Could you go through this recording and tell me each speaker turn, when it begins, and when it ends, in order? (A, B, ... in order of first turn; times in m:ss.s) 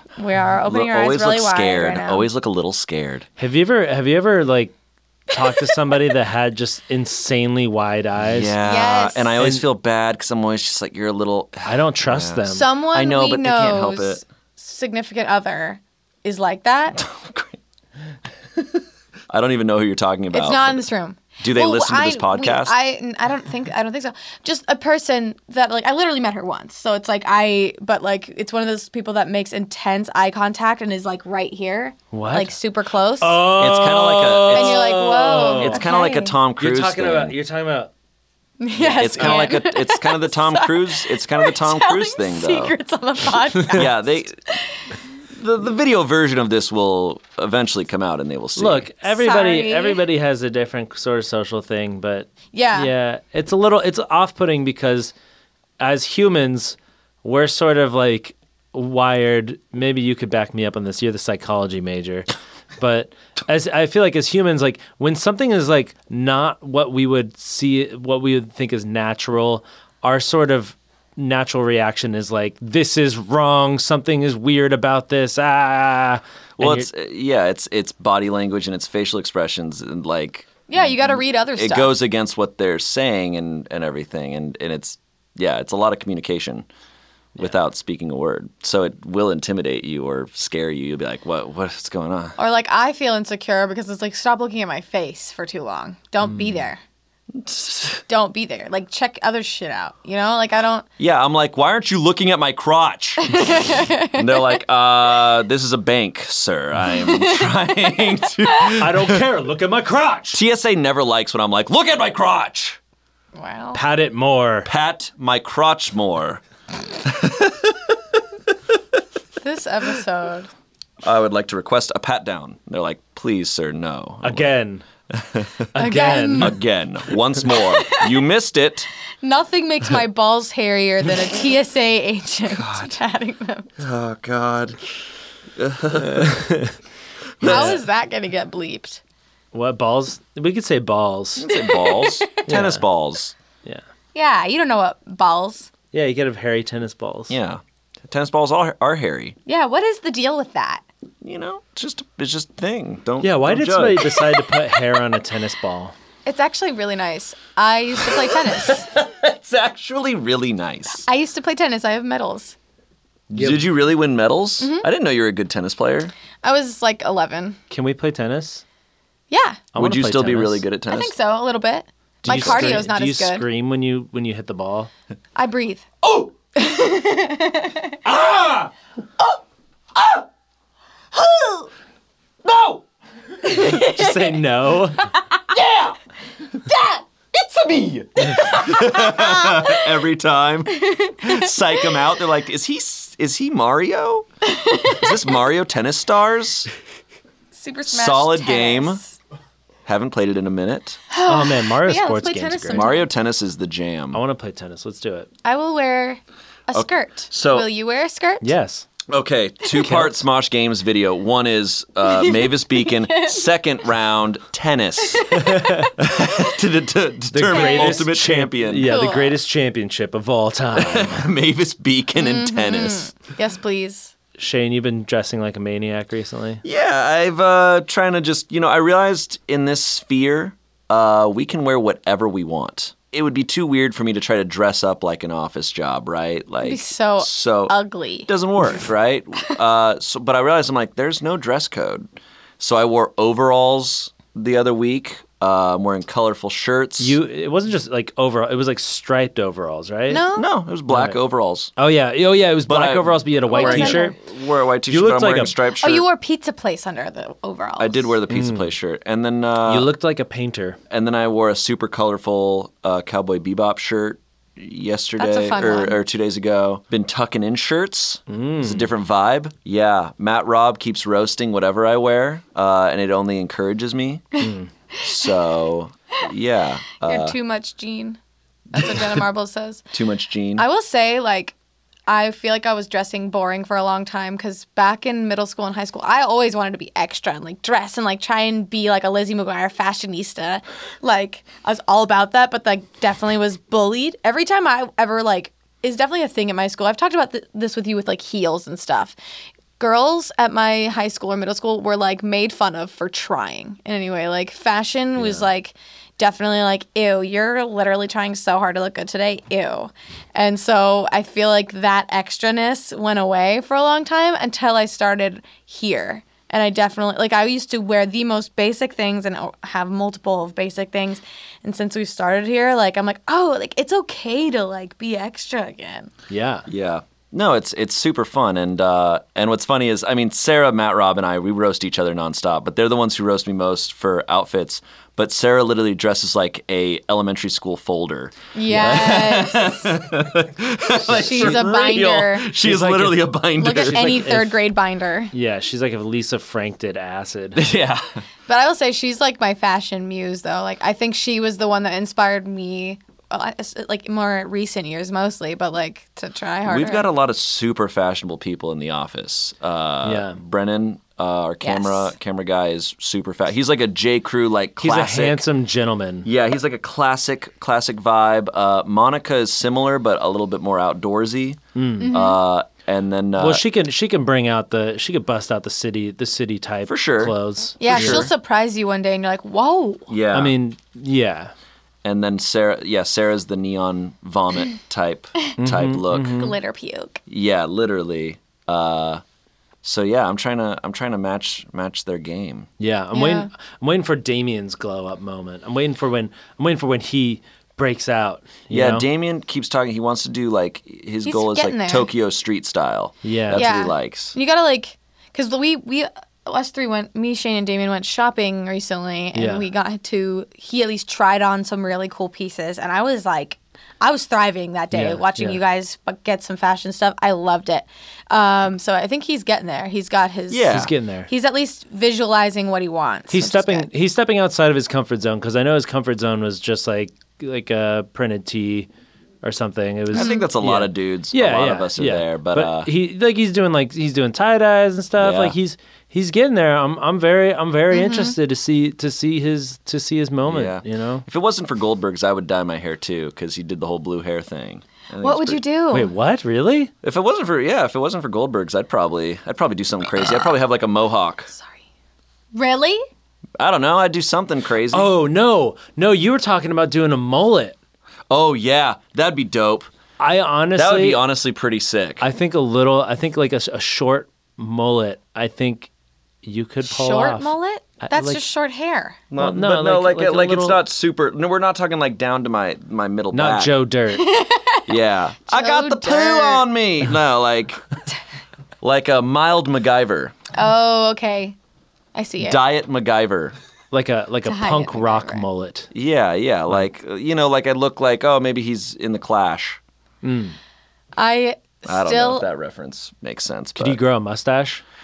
0:00.2-0:02.3 A
0:00.6-0:03.3 B
0:03.4-0:04.7 C
0:05.3-0:08.5 C
0:08.2-0:14.2 B
0:08.6-0:09.3 A
0:11.6-0:12.7 C
0:12.5-0:17.0 A
0:17.0-0:17.6 B
0:18.5-0:20.8 B
0:20.3-0:33.4 A
0:21.4-0:22.7 B
0:32.1-0:32.6 C
0:33.2-0:35.9 C
0:33.5-0:34.9 B
0:34.5-0:36.3 A
0:35.6-0:37.4 B
0:36.6-0:37.9 C
0:38.6-0:45.0 A
0:38.8-0:39.6 C
0:38.9-0:42.7 B
0:43.7-0:44.3 B
0:45.3-0:48.9 B
0:48.6-0:55.1 C
0:49.1-0:50.0 A
0:52.5-0:52.9 A
0:55.8-1:16.9 C
1:16.6-1:26.7 B
1:20.7-1:21.9 A
1:27.4-1:32.4 B
1:32.4-1:36.8 A
1:37.3-1:38.0 B
1:38.1-1:40.8 A
1:41.0-1:49.2 B
1:43.2-1:44.5 A
1:47.0-1:47.5 A
1:48.8-1:50.4 C
1:50.3-1:52.8 B
1:53.3-1:53.8 A
1:53.7-1:54.7 C
1:54.6-1:56.4 B
1:56.9-1:58.2 B
1:59.4-2:00.5 A
2:01.0-2:04.4 B
2:04.2-2:04.8 C
2:05.1-2:05.6 B
2:05.7-2:06.6 C
2:05.8-2:06.6 A
2:06.4-2:08.9 B
2:07.5-2:08.1 A
2:09.2-2:13.7 A
2:12.5-2:13.0 B
2:13.8-2:14.9 B
2:15.6-2:16.5 B
2:16.0-2:16.7 C
2:17.4-2:17.8 B
2:17.4-2:19.0 A
2:17.4-2:17.8 C
2:19.5-2:21.5 C
2:21.4-2:23.3 B
2:21.5-2:22.5 A
2:22.4-2:22.8 C
2:24.1-2:25.7 A
2:25.9-2:27.3 C
2:27.3-2:29.4 B
2:29.4-2:30.8 A
2:31.2-2:34.8 B
2:33.2-2:35.9 C
2:36.2-2:38.9 A
2:38.1-2:41.0 B
2:41.0-2:42.6 A
2:43.3-2:46.1 B
2:43.3-2:43.7 C
2:44.6-2:44.9 A
2:46.4-2:47.6 A
2:47.7-2:48.6 C
2:49.3-2:49.6 A
2:49.7-2:50.6 C
2:49.8-2:51.1 B
2:50.9-2:53.4 A
2:52.2-2:54.9 C
2:52.3-2:52.9 B
2:55.4-2:55.9 A
2:56.0-2:56.3 B
2:56.5-2:58.0 A
2:58.0-2:58.7 B
3:00.0-3:00.2 B
3:02.4-3:02.8 B
3:03.4-3:04.3 A
3:03.5-3:05.1 C
3:05.2-3:05.4 A
3:05.5-3:05.9 B
3:06.7-3:07.0 A
3:07.3-3:16.7 B
3:08.5-3:09.8 A
3:10.7-3:11.5 A
3:14.5-3:15.1 A
3:17.5-3:19.2 A
3:17.9-3:19.0 B
3:19.8-3:21.0 B
3:21.1-3:23.1 A
3:21.2-3:22.8 C
3:22.7-3:24.2 B
3:24.1-3:25.3 C
3:25.4-3:28.5 A
3:26.7-3:27.7 B
3:28.4-3:28.9 C
3:29.1-3:35.4 B
3:29.7-3:30.2 C
3:32.0-3:33.5 A
3:35.1-3:35.9 A
3:35.4-3:35.9 C
3:36.0-3:39.0 B
3:37.3-3:41.2 C
3:37.5-3:38.1 A
3:38.8-3:39.4 A
3:40.7-3:43.1 B
3:42.2-3:44.1 A
3:44.4-3:46.6 C
3:46.6-3:57.7 B
3:56.6-3:58.8 A
3:58.3-4:07.2 B
4:07.0-4:10.2 C
4:10.1-4:10.4 A
4:10.3-4:11.7 B
4:10.9-4:11.2 C
4:11.8-4:14.2 C
4:12.6-4:16.0 B
4:13.5-4:14.2 A
4:14.8-4:15.5 C
4:15.8-4:18.1 A
4:17.8-4:19.9 B
4:18.3-4:18.7 C
4:19.6-4:20.8 C
4:20.9-4:34.4 B
4:25.2-4:26.0 A
4:28.3-4:28.9 C
4:34.4-4:34.7 C
4:35.0-4:37.3 B
4:37.0-4:38.2 A
4:38.7-4:39.8 A
4:39.9-4:40.6 B
4:40.6-4:41.5 A
4:42.1-4:59.1 A
4:59.8-5:26.1 A
5:05.2-5:05.4 C
5:26.3-5:26.6 C
5:26.7-5:44.3 B
5:38.5-5:39.9 A
5:41.0-5:42.5 A
5:41.3-5:41.6 C
5:42.6-5:44.6 C
5:43.6-5:45.3 A
5:45.3-5:47.6 C
5:47.5-5:48.2 B
5:48.5-5:57.1 A
5:56.6-6:05.4 B
6:00.0-6:00.4 C
6:01.6-6:02.1 A
6:04.8-6:06.3 C
6:06.2-6:13.6 B
6:11.7-6:12.1 C
6:12.0-6:12.4 A
6:13.4-6:18.3 C
6:16.8-6:17.4 B
6:17.8-6:20.1 A
6:17.9-6:18.3 B
6:20.1-6:20.5 B
6:20.3-6:21.5 C
6:22.0-6:26.4 B
6:25.6-6:26.6 C
6:26.4-6:27.2 A
6:27.3-6:29.2 B
6:29.8-6:32.7 B
6:32.8-6:39.0 C
6:33.1-6:33.5 A
6:38.7-6:44.4 B
6:41.2-6:42.1 A
6:43.2-6:43.6 C
6:43.5-7:03.8 A
6:49.3-6:49.6 C
6:54.9-6:55.6 C
7:00.5-7:00.9 B
7:00.7-7:01.3 C
7:03.3-7:08.9 C
7:09.4-7:21.2 C
7:10.1-7:12.9 B
7:10.1-7:10.5 A
7:15.2-7:15.6 B
7:17.9-7:18.3 A
7:20.5-7:25.6 B
7:25.2-7:26.1 A
7:25.9-7:26.9 C
7:27.0-7:31.5 B
7:30.2-7:30.5 A
7:31.5-7:31.8 A
7:32.5-7:33.0 A
7:33.6-7:35.1 B
7:34.9-7:37.8 C
7:38.3-7:39.9 B
7:40.2-7:41.2 C
7:40.7-7:42.2 B
7:42.2-7:45.9 C
7:46.4-7:48.4 C
7:46.8-7:49.2 A
7:49.3-7:53.7 B
7:49.4-7:50.8 C
7:53.3-7:54.3 C
7:54.2-7:54.9 A
7:54.9-7:57.8 B
7:55.5-7:56.6 A
7:58.8-8:00.3 B
8:00.5-8:01.6 A
8:02.1-8:02.6 A
8:02.4-8:03.5 B
8:03.9-8:05.9 C
8:04.4-8:05.4 A
8:05.9-8:09.8 B
8:10.2-8:10.6 C
8:11.2-8:12.5 A
8:11.8-8:14.0 B
8:13.8-8:14.8 C